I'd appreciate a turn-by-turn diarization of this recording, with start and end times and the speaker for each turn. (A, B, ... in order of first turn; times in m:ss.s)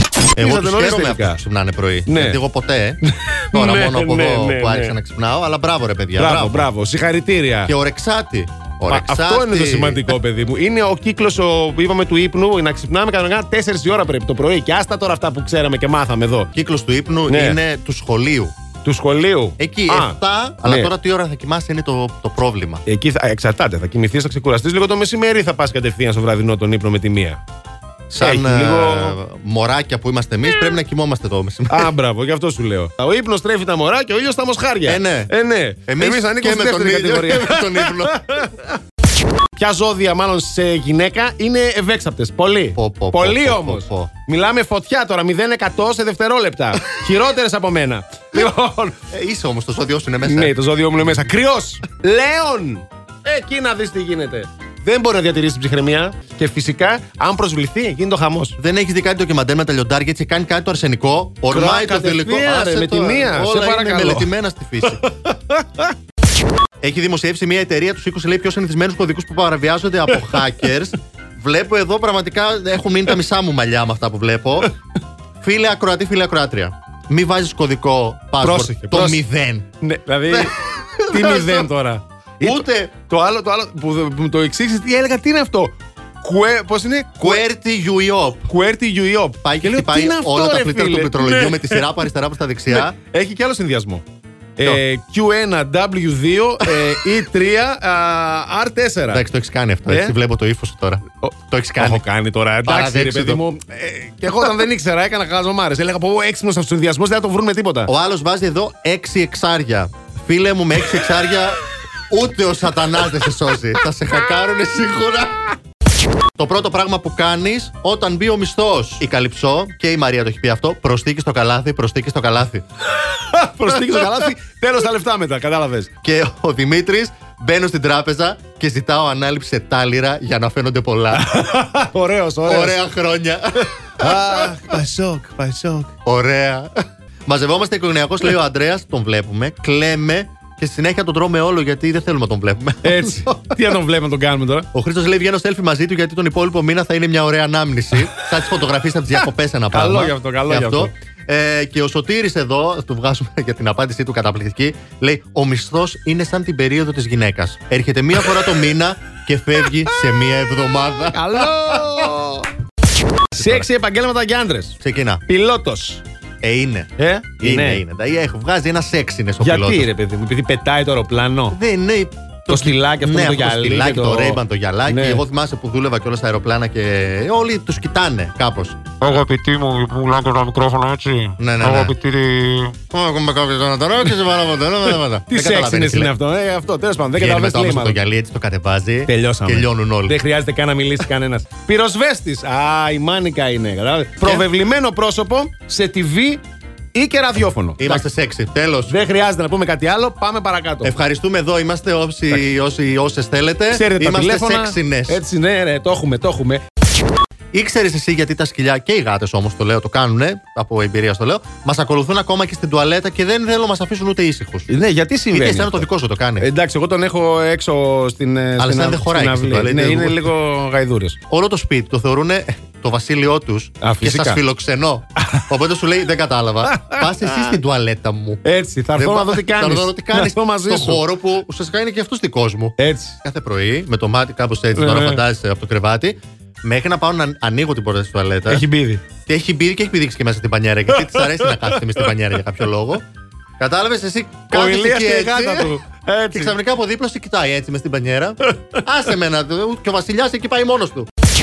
0:00.3-0:03.0 A
0:00.4-0:01.4 B
0:02.1-0:02.4 B
0:03.0-0:05.0 B
0:03.5-0:06.7 A
0:06.2-0:07.7 B
0:07.6-0:10.1 A
0:08.9-0:16.5 B
0:16.5-0:18.5 A
0:17.3-0:17.6 B
0:18.8-0:20.9 B
0:19.6-0:22.8 A
0:22.8-0:27.4 B
0:28.1-0:31.9 A
0:28.2-0:29.2 B
0:31.7-0:38.7 B
0:34.8-0:35.3 A
0:35.9-0:38.2 A
0:39.6-0:49.0 B
0:42.7-0:44.1 A
0:49.1-0:50.5 A
0:50.2-0:58.6 B
0:58.6-1:05.0 A
1:01.5-1:04.3 B
1:04.9-1:05.9 B
1:06.8-1:14.7 A
1:15.4-1:19.7 A
1:18.4-1:19.2 B
1:19.8-1:20.6 B
1:20.3-1:21.7 A
1:21.1-1:27.4 B
1:22.4-1:22.9 A
1:27.2-1:28.5 A
1:28.5-1:32.0 B
1:29.4-1:33.0 A
1:32.7-1:34.0 B
1:34.6-1:39.3 B
1:39.1-1:42.0 A
1:39.9-1:40.2 B
1:41.2-1:47.9 B
1:42.6-1:43.4 A
1:47.9-1:51.6 A
1:52.1-1:55.5 A
1:56.4-2:02.6 A
2:03.1-2:05.9 B
2:03.8-2:04.2 A
2:06.0-2:11.2 A
2:11.1-2:12.8 B
2:12.4-2:14.6 A
2:14.0-2:15.9 B
2:16.0-2:16.7 A
2:17.2-2:23.6 A
2:22.8-2:24.7 B
2:24.7-2:42.0 A
2:29.7-2:30.9 B
2:41.1-2:42.5 B
2:43.3-2:46.0 B
2:43.3-2:43.6 A
2:44.8-2:45.2 A
2:46.4-2:49.9 A
2:47.0-2:47.8 B
2:49.4-2:51.6 B
2:51.5-2:58.8 A
2:52.5-2:55.2 B
2:59.0-3:02.8 C
3:01.4-3:01.9 A
3:02.9-3:06.1 A
3:05.2-3:08.0 B
3:07.2-3:10.2 A
3:09.0-3:16.4 B
3:16.9-3:18.0 B
3:17.8-3:19.0 A
3:18.9-3:20.9 B
3:20.8-3:25.2 A
3:23.7-3:26.6 B
3:27.5-3:34.7 A
3:34.7-3:41.2 B
3:35.3-3:36.5 A
3:38.6-3:40.3 A
3:41.3-3:48.4 A
3:43.8-3:44.4 B
3:46.7-3:47.6 B
3:48.4-3:51.0 B
3:48.9-3:58.6 A
3:52.8-3:53.2 B
3:54.8-3:55.2 B
3:58.5-3:59.0 B
3:59.3-4:03.0 A
4:00.9-4:02.1 B
4:03.6-4:05.8 A
4:04.5-4:06.6 B
4:06.3-4:11.1 A